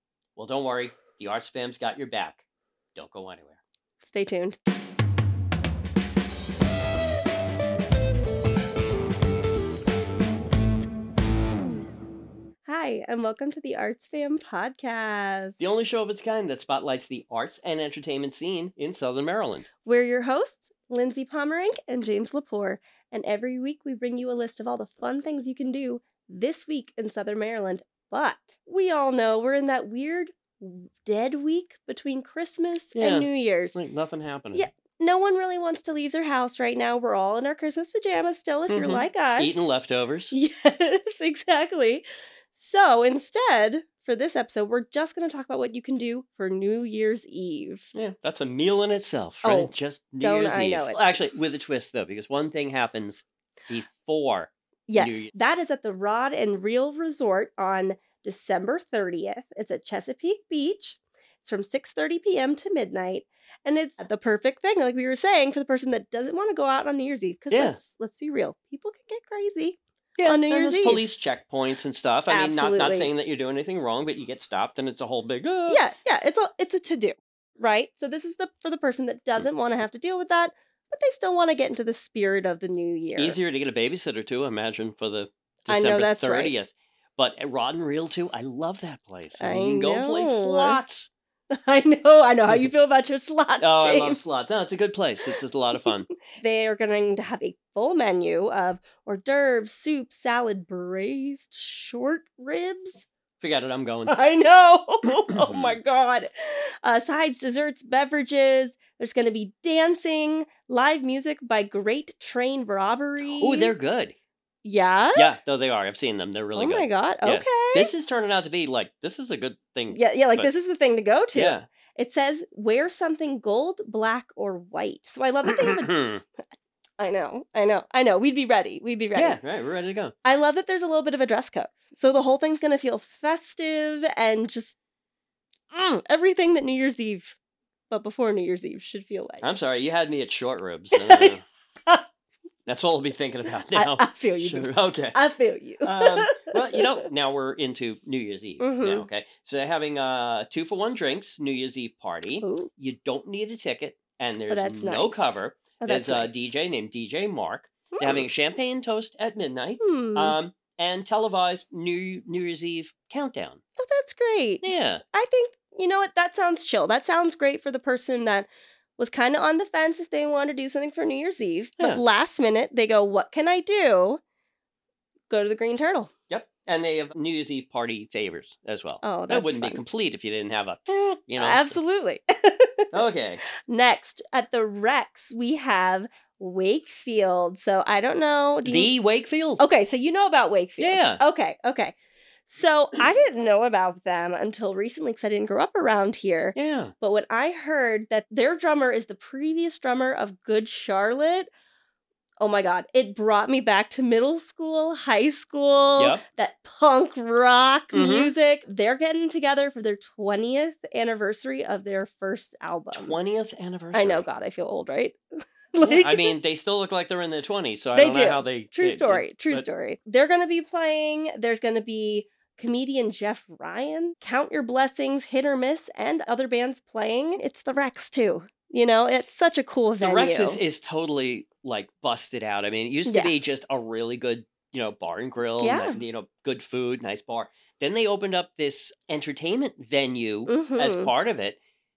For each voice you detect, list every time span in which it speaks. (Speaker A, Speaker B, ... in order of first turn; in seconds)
Speaker A: 0.3-2.4, 3.0-3.6, 15.6-19.7, 32.9-34.6, 38.7-40.3, 47.9-55.3, 67.5-67.8, 70.2-75.8, 83.2-91.1, 93.6-96.1, 103.4-104.1, 105.3-105.8, 113.2-114.1, 115.1-120.5, 121.3-121.7, 125.5-126.2, 129.1-130.1, 139.4-141.4, 142.7-145.2, 145.8-163.6, 164.6-165.0, 176.3-181.8, 182.9-183.4, 188.6-189.6, 190.8-191.2, 196.5-196.9, 206.0-206.2, 207.9-208.3, 212.9-214.2, 215.8-219.7, 230.0-241.6
Speaker B: 4.0-4.6, 12.6-15.6, 19.8-33.8, 34.5-39.7, 40.3-47.9, 49.4-51.0, 54.9-71.1, 72.3-73.1, 75.7-83.4, 85.7-86.5, 89.4-90.8, 91.5-94.4, 96.3-103.0, 104.1-113.7, 114.6-115.3, 116.5-117.9, 119.9-126.0, 127.0-129.4, 130.2-134.8, 135.7-137.4, 137.9-139.4, 140.9-141.3, 143.7-147.0, 148.6-149.1, 152.4-152.7, 154.5-156.5, 157.9-158.3, 159.8-160.3, 163.8-174.2, 175.3-176.1, 179.0-179.8, 181.4-182.9, 183.7-188.9, 189.6-191.9, 192.5-201.5, 202.4-213.2, 213.9-215.2, 215.7-216.3, 217.9-230.6, 233.1-233.3, 235.6-236.0, 240.5-241.1